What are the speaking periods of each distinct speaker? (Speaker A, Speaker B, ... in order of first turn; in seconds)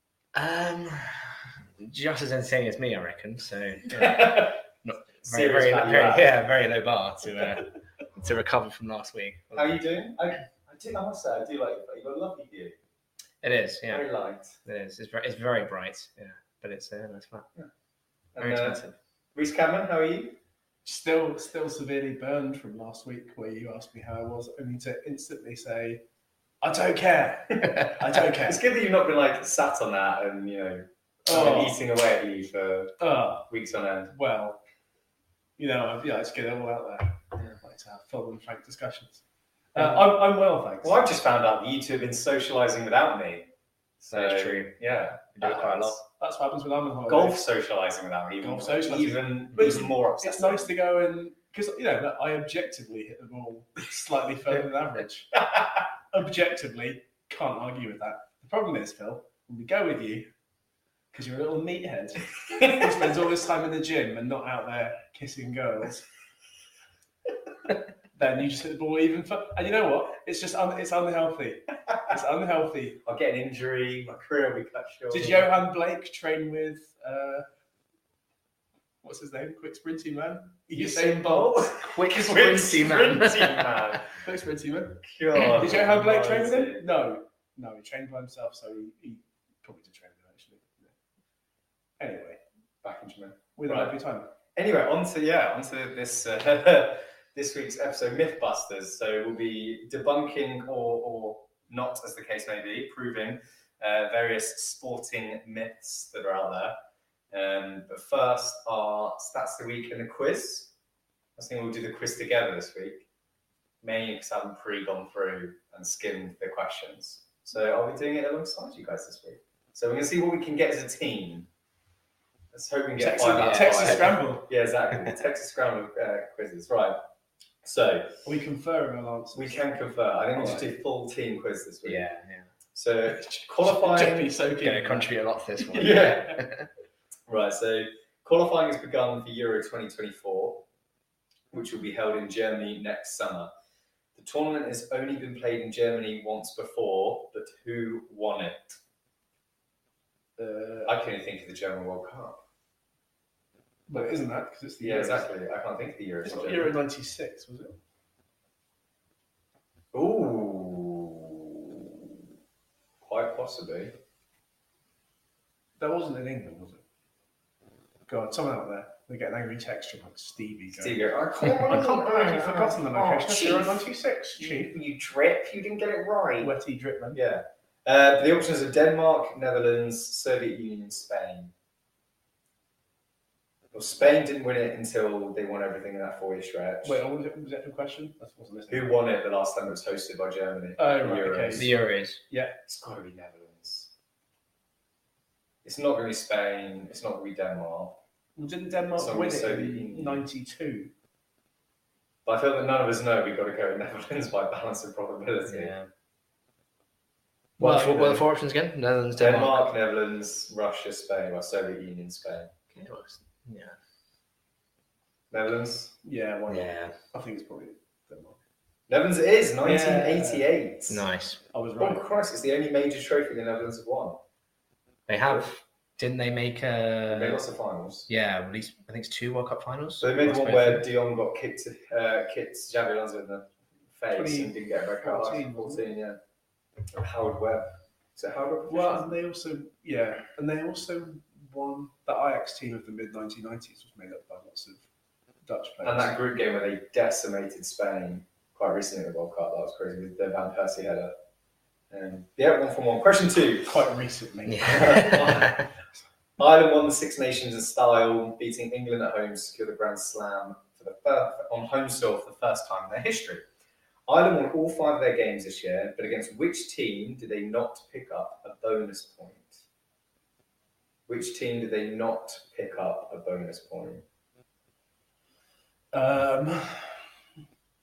Speaker A: 0.3-9.8, 13.4-14.1, 14.6-17.5, 18.4-18.9, 44.1-44.8, 45.3-46.0, 49.5-49.9, 81.8-83.8, 123.2-124.2, 131.8-132.5, 134.6-136.7, 191.5-192.2, 205.5-205.9, 207.6-209.7, 212.7-213.8, 216.5-216.9, 220.9-221.4, 225.1-227.4, 228.1-230.8, 254.5-255.6
Speaker B: 3.9-4.6, 5.2-6.3, 9.5-12.8, 13.9-14.6, 18.3-18.8, 19.3-20.4, 27.6-34.1, 39.8-40.1, 40.8-43.5, 44.0-46.0, 47.1-50.7, 73.0-75.5, 80.7-84.1, 85.0-86.8, 92.8-93.9, 94.5-106.8, 107.3-110.7, 111.3-113.1, 113.8-121.5, 122.5-127.0, 127.6-128.2, 129.3-132.1, 132.7-134.3, 135.7-136.4, 137.3-140.6, 141.5-143.5, 144.2-148.8, 150.8-152.4, 154.8-156.7, 159.9-162.2, 163.0-163.9, 170.7-176.5, 177.1-181.5, 183.7-187.0, 188.7-191.7, 192.7-193.9, 195.6-198.0, 198.9-200.2, 202.2-205.7, 209.2-212.5, 215.3-215.9, 218.9-221.0, 221.8-224.2, 227.1-228.1, 230.0-236.2, 236.9-239.1, 245.8-251.1, 251.9-253.8, 254.7-255.5, 256.4-263.4, 264.1-269.6, 271.1-274.0
Speaker C: 20.8-26.0, 26.6-28.6, 31.3-31.8, 33.0-33.5, 34.1-34.6, 35.6-39.2, 39.7-41.1, 46.2-47.4, 48.4-55.4, 56.1-60.3, 61.1-66.1, 68.1-73.0, 75.1-77.5, 79.0-81.7, 84.1-90.9, 92.0-92.4, 93.5-94.3, 123.0-124.5, 128.2-129.6, 130.3-130.7, 133.6-135.2, 150.4-150.9, 153.9-155.3, 156.2-157.8, 165.8-166.8, 168.1-174.8, 176.4-177.2, 186.8-188.9, 190.8-191.7, 192.3-192.6, 198.3-200.9, 207.6-208.2, 216.0-218.4, 219.6-220.5, 221.5-222.0, 234.1-235.9, 238.7-244.8, 245.4-246.2, 253.6-255.6, 275.9-277.0